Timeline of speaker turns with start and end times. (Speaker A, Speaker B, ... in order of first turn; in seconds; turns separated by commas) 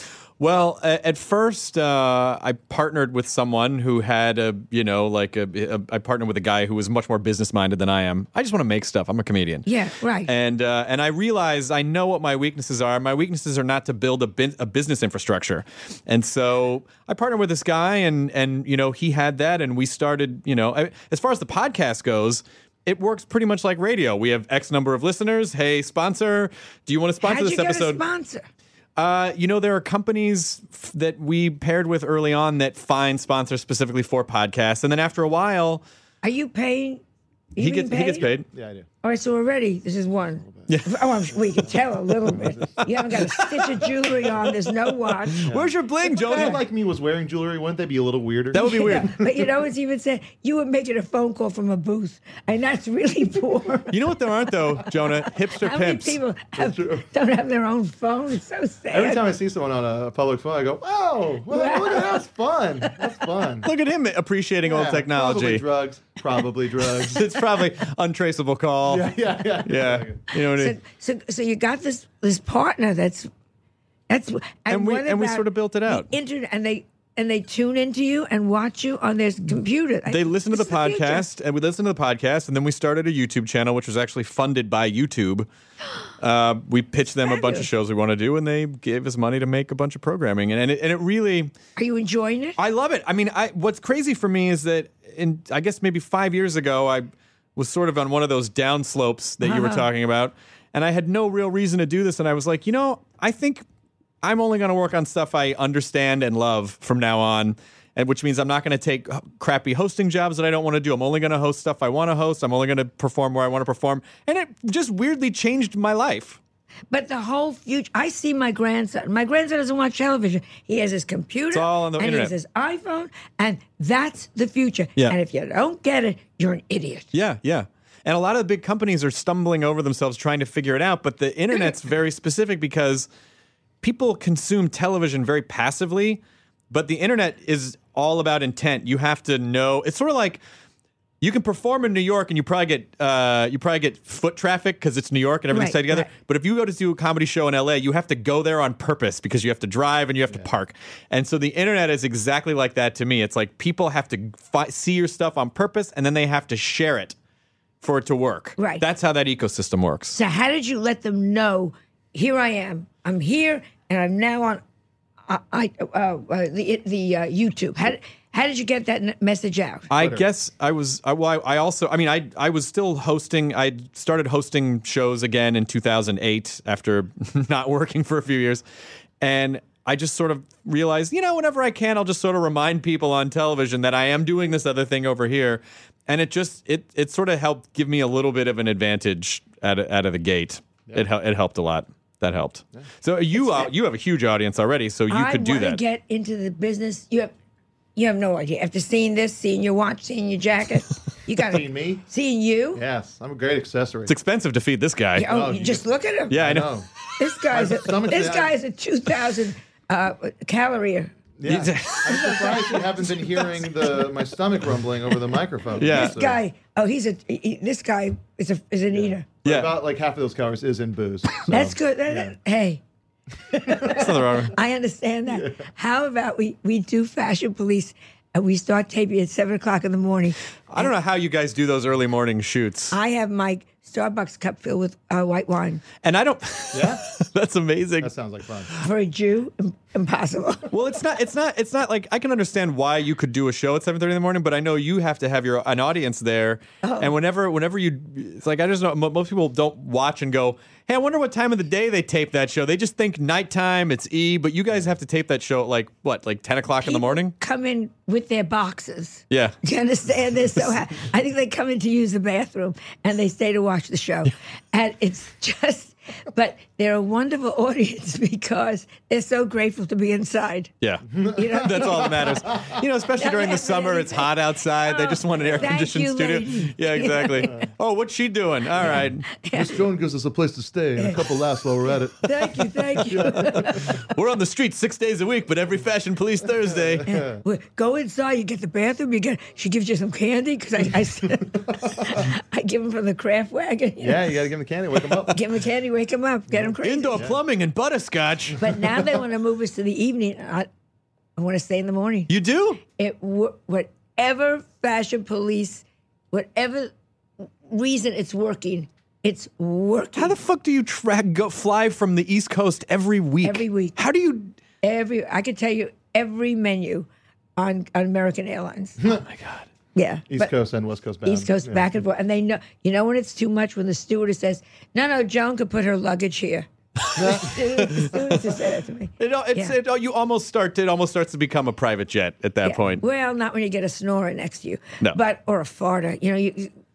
Speaker A: 0.4-9.7, Speaker B: 9.7-10.3, Speaker A: 10.2-28.0, Speaker B: 27.2-28.4, Speaker A: 29.0-35.8, Speaker B: 36.2-37.0, Speaker B: 37.5-38.3, Speaker A: 37.6-38.5, Speaker C: 38.5-38.9, Speaker B: 39.0-45.5, Speaker C: 40.4-40.8, Speaker A: 40.7-41.0, Speaker C: 42.3-42.8, Speaker A: 42.8-44.4, Speaker A: 45.3-46.6, Speaker C: 45.4-49.3, Speaker B: 46.1-46.6, Speaker A: 48.5-49.2, Speaker B: 48.5-53.9, Speaker A: 53.9-56.2, Speaker B: 55.5-59.2, Speaker C: 56.6-57.0, Speaker C: 58.9-63.7, Speaker B: 61.5-62.2, Speaker A: 63.6-65.6, Speaker C: 64.6-67.3, Speaker A: 67.0-69.1, Speaker C: 68.8-70.2, Speaker A: 69.6-70.8, Speaker B: 70.4-73.3, Speaker B: 74.1-81.2, Speaker A: 74.7-76.1, Speaker A: 80.1-85.5, Speaker A: 86.2-91.5, Speaker B: 87.2-87.7, Speaker B: 91.8-92.5, Speaker A: 92.6-103.6, Speaker B: 99.4-99.9, Speaker A: 104.2-116.4, Speaker B: 116.9-127.1, Speaker A: 121.5-122.3, Speaker A: 127.1-133.1, Speaker A: 133.8-140.4, Speaker A: 141.2-157.1, Speaker B: 145.5-146.1, Speaker A: 157.8-160.2, Speaker B: 158.6-158.8, Speaker B: 160.1-164.6, Speaker B: 165.3-169.9, Speaker A: 169.9-178.6, Speaker C: 169.9-170.3, Speaker A: 179.2-195.8, Speaker B: 193.3-193.7, Speaker B: 195.1-197.3, Speaker B: 197.9-202.8, Speaker C: 201.3-202.0, Speaker C: 202.7-204.2, Speaker A: 204.1-205.3, Speaker B: 205.2-206.3, Speaker C: 205.2-206.8, Speaker A: 206.3-206.7, Speaker B: 207.2-211.1, Speaker C: 207.5-208.5, Speaker C: 211.4-216.4, Speaker A: 211.4-212.7, Speaker B: 212.4-212.8, Speaker A: 215.8-216.2, Speaker B: 215.8-219.3, Speaker C: 218.9-222.3, Speaker A: 219.4-219.7, Speaker B: 221.4-222.8, Speaker B: 223.5-230.9, Speaker A: 223.8-224.6, Speaker A: 230.7-232.9, Speaker B: 232.9-235.8, Speaker A: 236.0-238.1, Speaker C: 236.7-237.0, Speaker C: 238.0-238.7, Speaker B: 238.8-240.7, Speaker A: 240.7-257.3, Speaker B: 246.8-247.1, Speaker B: 256.8-270.7, Speaker A: 259.3-259.6, Speaker A: 270.8-279.2, Speaker C: 271.1-272.7, Speaker B: 271.3-272.4, Speaker B: 273.2-277.5, Speaker C: 275.4-275.7, Speaker C: 278.8-283.9, Speaker B: 279.3-279.8, Speaker B: 282.2-284.0, Speaker A: 284.0-287.1, Speaker C: 286.6-287.4, Speaker B: 287.1-294.3, Speaker C: 291.8-292.2, Speaker C: 294.0-295.4, Speaker B: 295.3-297.2, Speaker C: 296.5-297.4, Speaker A: 296.8-298.7, Speaker B: 298.6-300.7, Speaker B: 301.4-302.3, Speaker A: 302.3-302.8, Speaker B: 302.9-306.9, Speaker B: 307.6-310.3, Speaker A: 310.1-314.5, Speaker B: 313.4-314.0, Speaker B: 314.8-319.0, Speaker A: 319.0-319.7, Speaker B: 319.9-320.5, Speaker C: 320.3-321.9, Speaker B: 321.2-329.7, Speaker A: 327.1-328.2, Speaker C: 327.2-327.5, Speaker A: 329.2-333.0, Speaker B: 332.6-336.7